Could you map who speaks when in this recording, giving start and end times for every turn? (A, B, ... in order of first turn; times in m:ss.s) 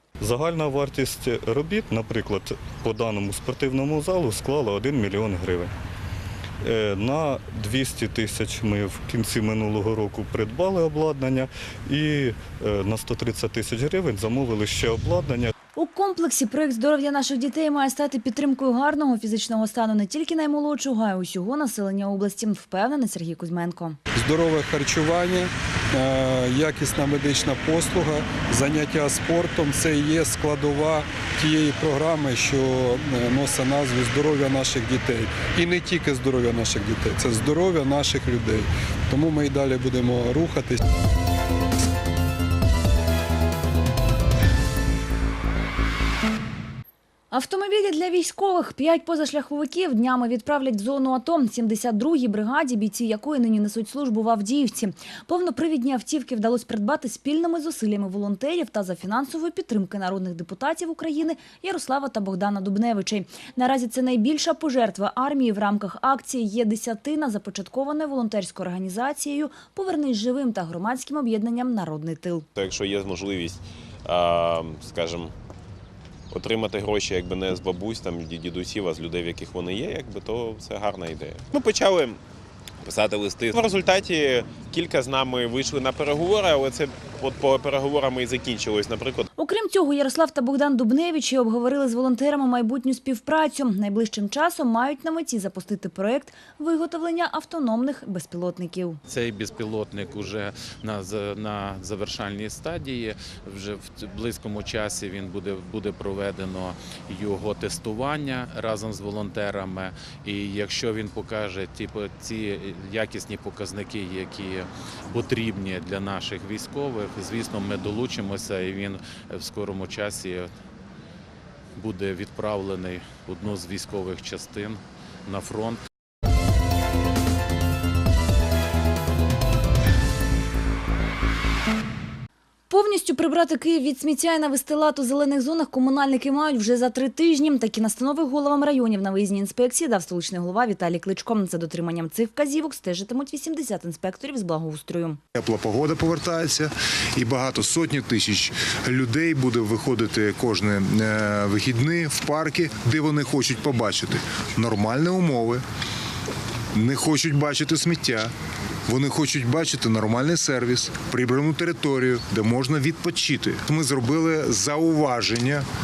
0:00.2-0:05.7 A
0:06.6-0:15.5 A
0:15.8-0:24.0 B
0:24.2-0:40.8 C
0:47.3-1:12.4 B
1:12.6-1:15.3 D
1:16.3-1:22.2 D
1:22.8-1:29.2 D
1:29.4-1:39.0 B
1:39.1-2:00.5 E
2:01.8-2:05.8 E
2:12.7-2:25.2 B
2:25.3-2:35.6 F
2:36.7-2:38.3 F
2:38.9-2:45.6 F